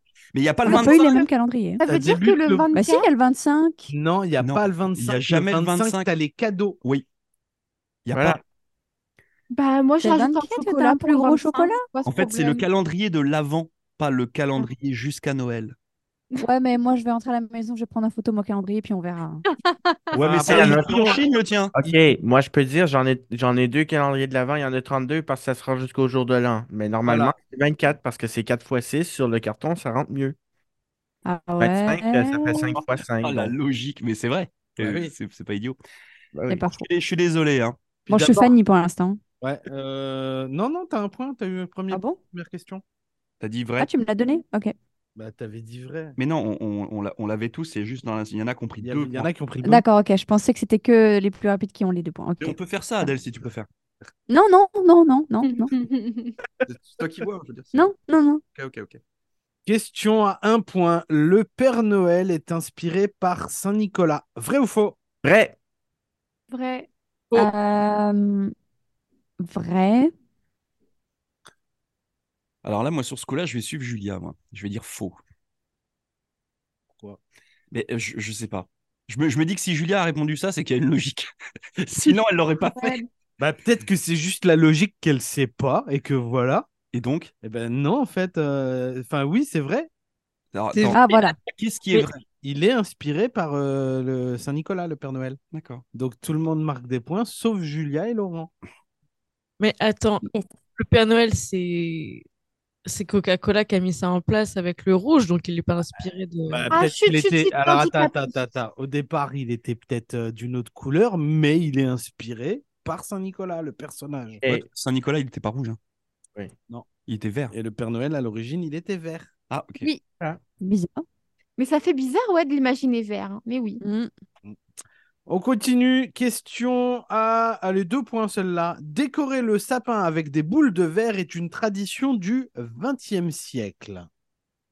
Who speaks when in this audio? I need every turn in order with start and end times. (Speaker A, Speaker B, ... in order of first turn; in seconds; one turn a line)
Speaker A: 0.3-1.3
Speaker B: 0.7-1.8
Speaker C: 1.8-3.1
Speaker D: 1.9-2.7
Speaker B: 2.7-3.9
Speaker D: 3.9-6.8
Speaker A: 4.4-6.1
Speaker A: 8.0-8.4
Speaker E: 8.1-8.4
Speaker C: 9.5-12.6
Speaker B: 10.0-11.8
Speaker A: 12.0-15.7
Speaker B: 16.4-19.4
Speaker C: 19.5-20.1
Speaker A: 20.1-21.7
Speaker D: 20.1-21.2
Speaker E: 20.4-21.2
Speaker E: 21.8-30.4
Speaker D: 27.0-27.3
Speaker B: 31.2-32.8
Speaker E: 31.6-33.5
Speaker A: 32.8-35.8
Speaker D: 34.8-35.1
Speaker E: 36.3-36.6
Speaker B: 36.5-36.9
Speaker A: 36.7-37.8
Speaker D: 38.1-38.5
Speaker B: 38.1-39.2
Speaker D: 39.4-42.8
Speaker B: 41.9-42.2
Speaker A: 43.4-43.9
Speaker B: 43.8-44.7
Speaker D: 45.1-46.1
Speaker A: 46.2-49.3
Speaker D: 48.8-49.8
Speaker B: 49.6-52.6
Speaker A: 52.4-53.7
Speaker B: 54.3-55.7
Speaker C: 55.4-56.4
Speaker A: 56.6-57.9
Speaker B: 57.7-58.4
Speaker A: 58.5-59.0
Speaker D: 59.6-65.0
Speaker E: 65.2-65.5
Speaker C: 66.5-66.9
Speaker B: 67.3-68.5
Speaker B: 69.4-70.1
Speaker A: 72.6-75.2
Speaker D: 76.9-77.2
Speaker A: 77.7-81.3
Speaker A: 81.8-83.0
Speaker C: 82.7-83.1
Speaker D: 83.4-86.7
Speaker A: 86.9-87.3
Speaker D: 87.4-89.9
Speaker A: 90.5-92.2
Speaker F: 90.7-91.3
Speaker B: 90.9-91.3
Speaker D: 92.4-95.4
Speaker A: 95.5-95.8
Speaker D: 95.9-98.5
Speaker F: 99.6-100.2
Speaker B: 100.2-100.5
Speaker F: 100.8-102.2
Speaker F: 102.8-106.7
Speaker D: 106.5-114.4
Speaker C: 106.7-108.4
Speaker A: 114.5-115.8
Speaker A: 117.1-117.5
Speaker D: 117.5-119.3
Speaker A: 119.5-119.9
Speaker B: 120.6-121.0
Speaker C: 121.6-123.8
Speaker B: 123.8-124.1
Speaker D: 125.3-134.1